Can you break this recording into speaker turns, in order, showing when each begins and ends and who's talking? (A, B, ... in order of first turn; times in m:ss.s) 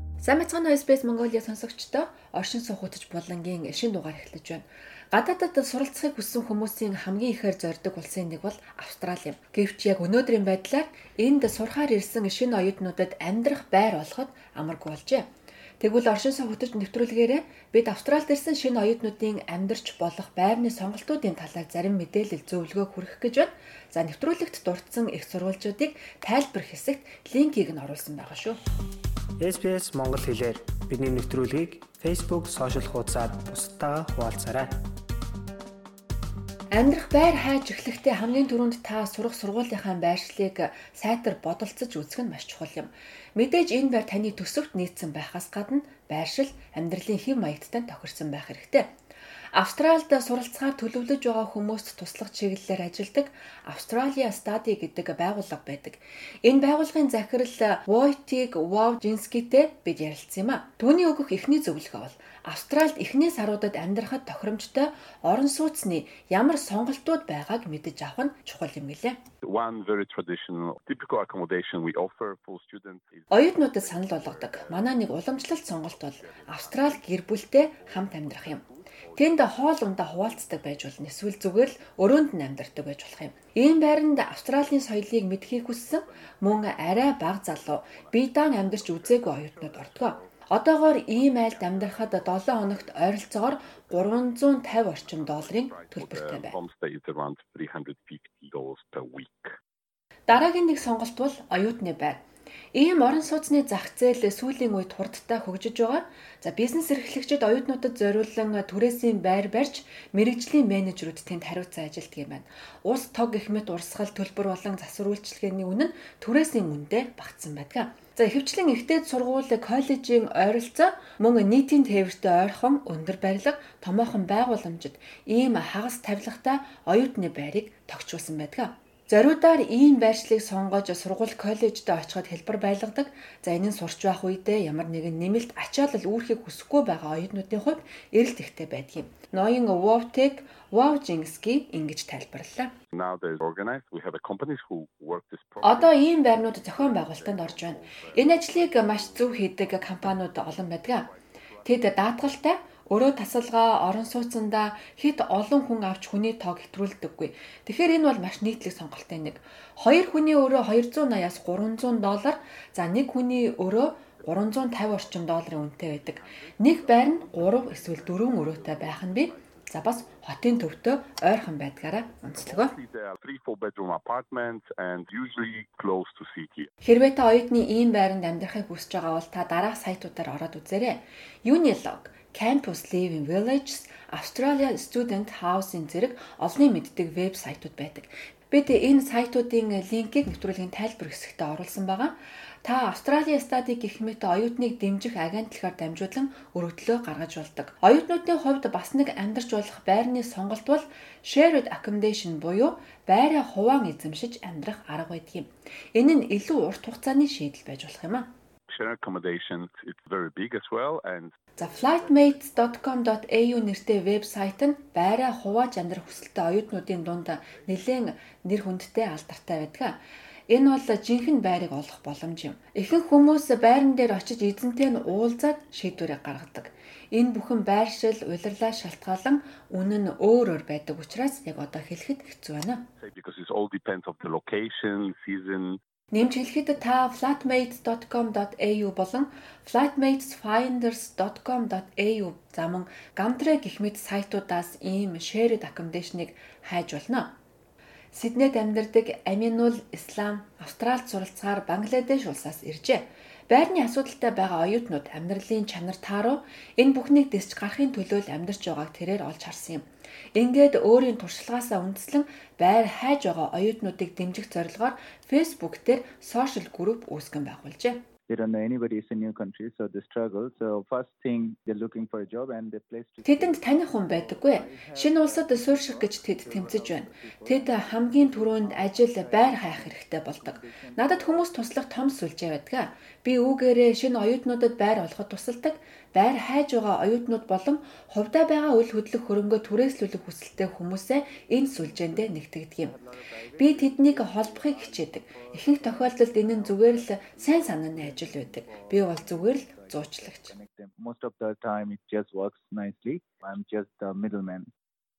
0:00.2-0:15.3 A
0:15.8-0:28.6 A
0:29.4-0:34.8 B
0:36.7-0:48.9 A
0:49.5-1:09.2 A
1:09.4-1:20.0 C
1:13.3-1:36.6 A
1:25.9-1:39.6 C
1:40.3-1:42.2 A
1:42.7-2:22.7 A
2:22.9-2:30.2 C
2:25.6-2:31.1 A
2:31.6-2:52.8 A
2:46.6-2:49.5 C
2:52.4-2:56.7 C
2:56.8-3:28.3 A
3:28.7-3:32.4 C
3:31.6-3:52.9 A
3:37.4-3:37.7 D
3:53.0-3:55.8 C
3:56.1-4:07.4 A
4:08.1-4:28.1 A
4:28.3-4:41.5 D
4:33.2-4:53.0 A
4:51.7-5:04.7 D
4:53.6-5:00.6 A